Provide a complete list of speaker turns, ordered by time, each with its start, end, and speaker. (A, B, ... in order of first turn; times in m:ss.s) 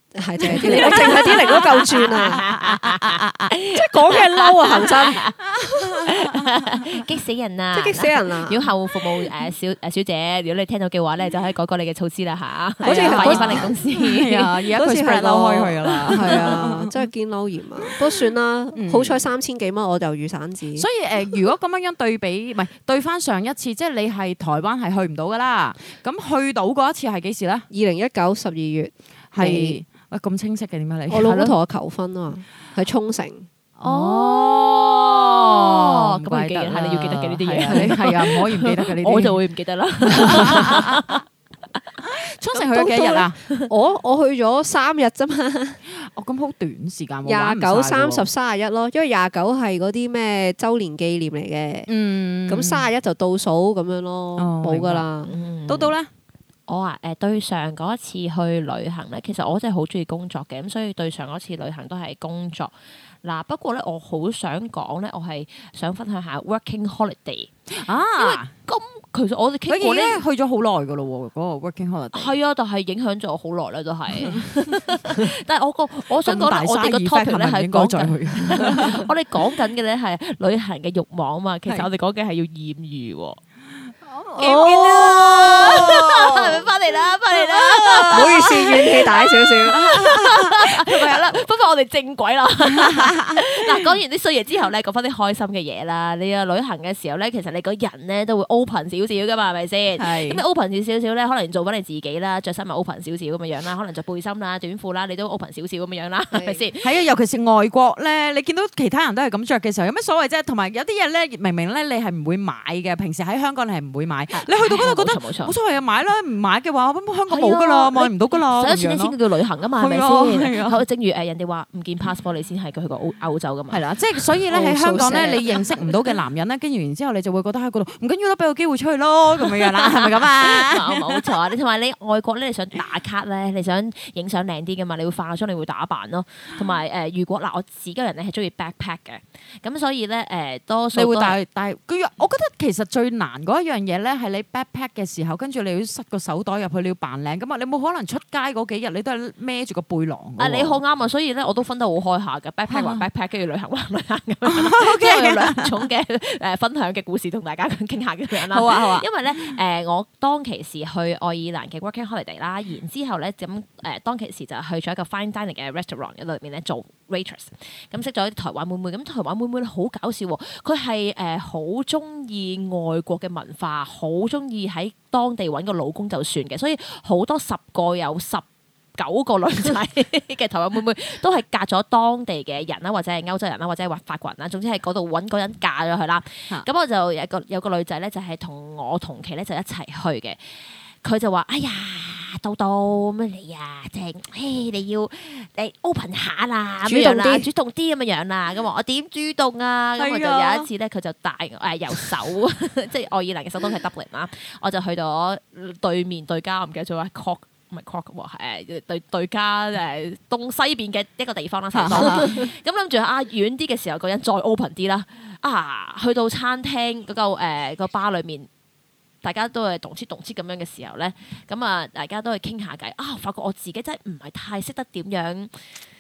0:00.2-0:02.5 A
0:00.4-0:03.5 B
0:00.6-0:05.4 C
0:03.7-0:06.0 A
0:05.7-0:06.8 B
0:06.0-0:14.5 C
0:07.7-0:08.6 A
0:12.8-0:13.7 A
0:12.8-0:17.0 B
0:14.7-0:20.9 A
0:16.1-0:16.6 C
0:17.8-0:18.2 B
0:18.8-0:19.3 B
0:20.8-0:27.7 B
0:27.7-0:29.8 A
0:29.3-0:31.4 B
0:31.1-0:33.5 A
0:31.2-0:31.5 C
0:33.8-0:39.4 B
0:33.8-0:41.2 C
0:37.6-0:38.0 A
0:40.1-0:41.2 B
0:42.0-0:43.4 B
0:42.5-0:45.8 A
0:45.9-0:48.3 B
0:47.2-0:51.9 A
0:51.9-0:52.9 B
0:52.5-0:55.3 A
0:54.4-0:55.1 B
0:55.2-0:55.9 C
0:55.7-0:56.1 B
0:56.7-1:07.5 C
1:07.8-1:08.5 B
1:08.2-1:10.2 C
1:09.7-1:12.3 B
1:12.1-1:23.4 C
1:14.2-1:14.8 B
1:16.2-1:19.1 B
1:24.0-1:26.7 B
1:24.4-1:46.9 C
1:24.4-1:25.8 A
1:27.3-1:28.9 B
1:28.1-1:29.8 A
1:29.7-1:31.4 B
1:32.7-1:33.9 B
1:40.0-1:40.4 B
1:46.3-1:46.6 A
1:46.8-1:59.2 B
1:54.3-1:55.5 C
1:57.3-2:03.9 C
1:59.8-2:00.8 B
2:03.7-2:11.3 B
2:04.5-2:05.5 A
2:05.0-2:05.9 C
2:09.5-2:21.4 C
2:20.9-2:30.8 B
2:30.4-3:38.5 C
2:32.7-2:33.0 B
2:34.5-2:35.7 B
2:38.3-2:39.6 B
3:16.9-3:17.5 A
3:20.0-3:20.7 B
3:31.7-3:32.5 B
3:39.2-3:45.8 C